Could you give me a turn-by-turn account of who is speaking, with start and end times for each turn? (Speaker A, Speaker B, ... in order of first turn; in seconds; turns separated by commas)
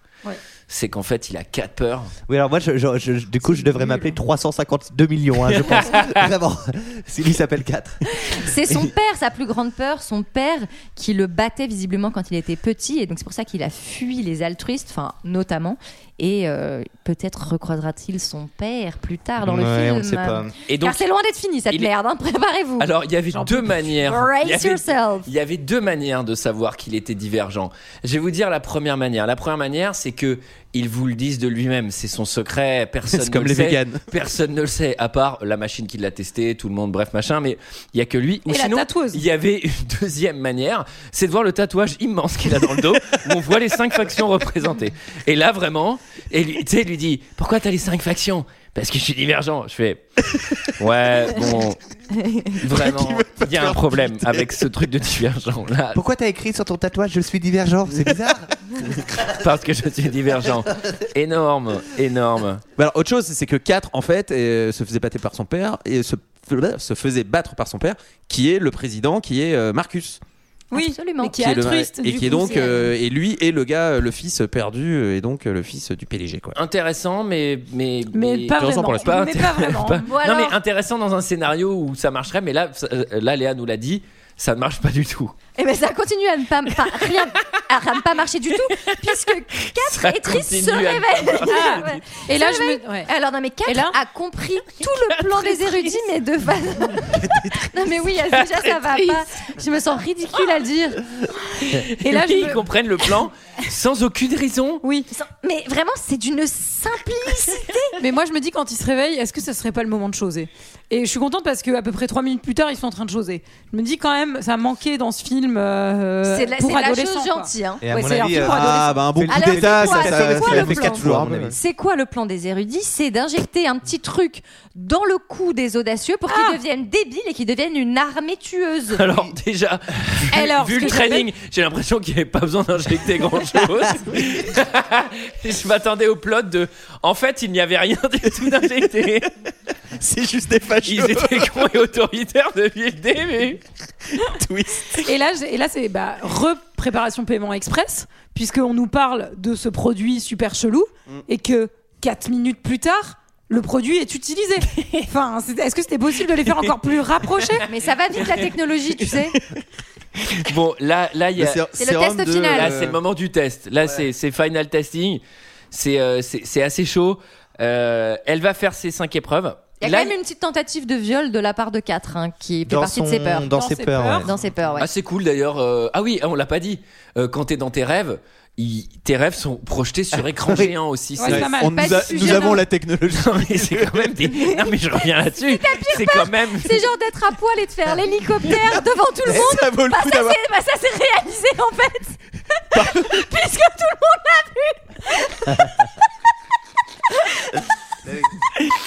Speaker A: 0.7-2.1, Speaker B: 2.3-8.0, Speaker C: 3.8-4.1, Speaker A: 5.5-6.2, Speaker D: 8.2-22.9, Speaker B: 19.4-20.5, Speaker A: 20.7-21.0, Speaker A: 22.8-50.0, Speaker C: 23.3-23.9, Speaker D: 24.1-25.3, Speaker E: 33.1-34.0, Speaker C: 38.5-39.2, Speaker A: 50.6-51.8, Speaker E: 52.5-54.7, Speaker A: 52.6-56.0, Speaker B: 55.9-59.0, Speaker A: 59.3-62.6, Speaker E: 62.8-70.2, Speaker C: 70.7-72.9, Speaker D: 70.7-71.4, Speaker E: 71.3-76.6, Speaker A: 76.5-85.3, Speaker C: 78.1-80.1, Speaker E: 78.6-79.1, Speaker D: 80.1-80.5, Speaker D: 85.5-101.0, Speaker A: 88.7-92.0, Speaker C: 91.4-93.1, Speaker C: 93.6-94.0, Speaker A: 95.1-96.0, Speaker B: 97.2-97.7, Speaker A: 98.3-98.8, Speaker A: 101.6-104.8, Speaker C: 102.0-102.7, Speaker C: 104.8-105.1, Speaker D: 105.1-107.9, Speaker C: 108.0-119.0, Speaker D: 116.3-117.8, Speaker B: 117.8-121.6, Speaker E: 118.3-121.5, Speaker D: 119.2-129.0, Speaker C: 126.3-126.6, Speaker A: 128.9-139.3, Speaker C: 130.3-131.3, Speaker E: 140.0-141.7, Speaker A: 140.8-143.6, Speaker E: 144.1-145.0, Speaker C: 145.0-157.7, Speaker A: 154.7-155.1, Speaker D: 157.7-159.4, Speaker A: 158.2-158.5, Speaker A: 160.2-161.6, Speaker E: 161.4-163.0, Speaker D: 161.8-162.8, Speaker A: 162.5-170.1, Speaker D: 169.8-173.5, Speaker B: 172.7-174.3, Speaker C: 173.5-174.3, Speaker D: 174.2-174.9, Speaker A: 174.8-181.5, Speaker C: 181.2-182.6, Speaker E: 181.2-184.3, Speaker D: 181.7-182.6, Speaker A: 183.1-186.8, Speaker D: 185.3-195.6, Speaker E: 189.2-190.4, Speaker E: 192.7-193.2